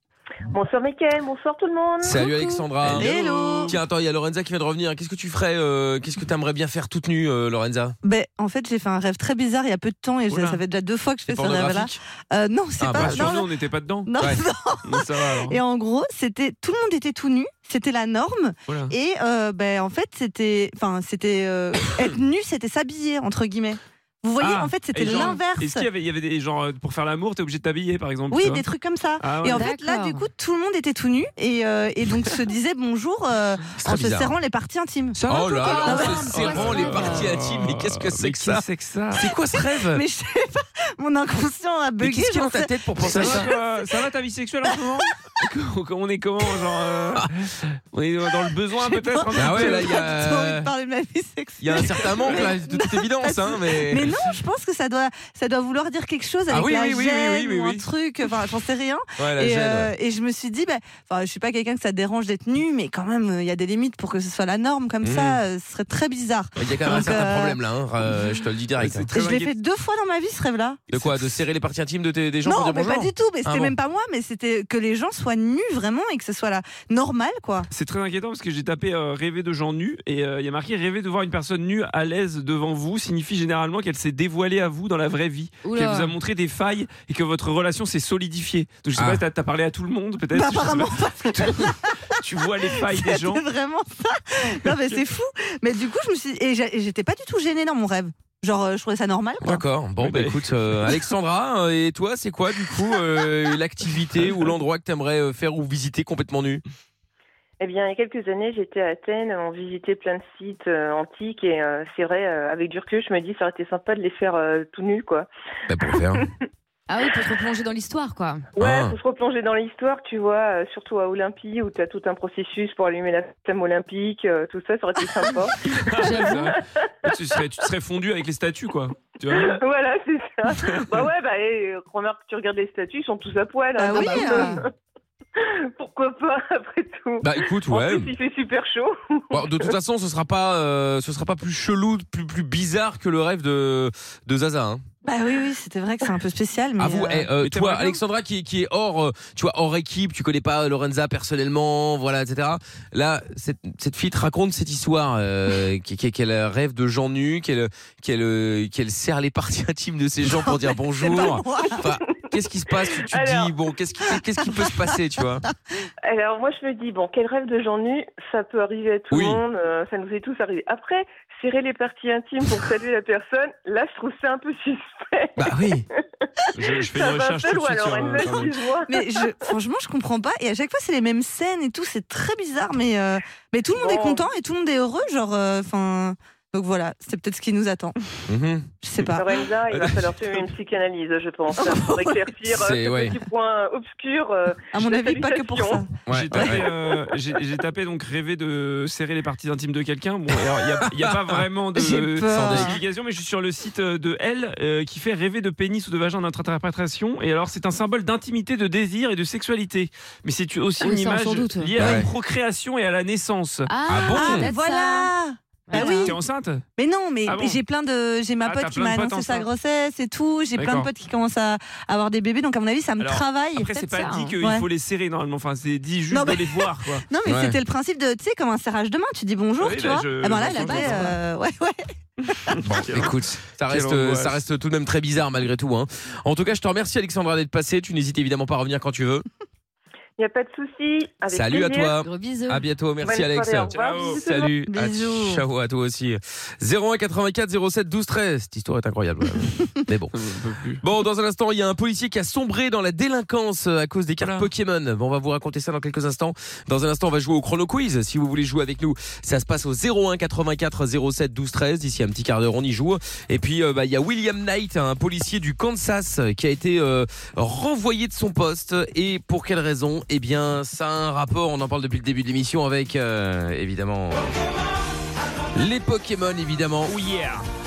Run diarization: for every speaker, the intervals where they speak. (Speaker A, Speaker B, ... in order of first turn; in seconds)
Speaker A: 0.5-2.3, 107.6-115.3, 118.6-127.2, 129.3-134.7, 135.4-139.7, 162.8-163.5, 166.1-179.5, 183.8-184.3, 189.1-195.8, 240.2-242.0, 243.0-244.6
Speaker B: 2.0-3.1, 3.6-8.0, 11.3-12.0, 12.8-13.3, 33.8-34.4, 35.3-40.0, 42.0-43.5, 49.4-50.7, 51.6-54.1, 56.5-57.9, 59.2-59.9, 65.0-65.4, 66.6-69.1, 70.9-73.8, 89.0-89.2, 99.4-106.6, 115.7-116.2, 118.6-119.0, 137.2-138.1, 139.3-144.8, 146.8-165.4, 169.1-169.4, 175.4-175.8, 188.3-188.7, 192.5-193.2, 196.1-196.7, 202.3-202.8, 211.8-212.1, 213.9-214.5, 227.3-227.6, 232.7-239.2, 241.3-250.1, 250.8-274.3, 275.6-277.0
Speaker C: 2.1-2.6, 25.1-25.4, 29.5-30.3, 35.6-37.2, 85.6-86.1, 116.9-118.5, 126.0-126.5, 133.9-134.6, 210.8-211.7, 213.7-215.1, 215.7-216.2, 223.8-224.3, 230.5-231.1, 242.0-242.7
Speaker D: 2.8-3.8, 10.3-10.6, 12.9-14.1, 14.8-15.6, 18.7-18.9, 24.4-28.7, 29.2-29.7, 35.3-39.4, 43.0-50.1, 52.3-52.5, 68.8-69.5, 77.7-93.5, 94.7-95.0, 99.5-100.5, 125.7-129.6, 130.6-131.1, 147.4-148.0, 176.6-178.5, 196.1-213.7, 215.7-216.6, 217.3-217.6, 218.4-219.5, 220.6-220.9, 223.0-227.1, 229.6-231.2, 232.5-233.2, 233.7-234.4, 243.7-244.5, 250.1-250.8, 254.2-254.5, 276.9-277.5
Speaker E: 2.9-3.8, 8.0-13.5, 14.1-25.9, 28.3-36.3, 39.9-43.8, 48.7-67.6, 69.1-70.8, 72.5-77.7, 90.3-99.6, 133.8-134.6, 145.1-147.3, 160.3-161.9, 164.4-164.8, 178.9-187.9, 188.8-189.3, 191.6-192.3, 194.7-196.0, 201.8-202.8, 214.2-216.2, 216.8-223.7, 224.4-224.7, 226.1-231.8, 244.7-245.4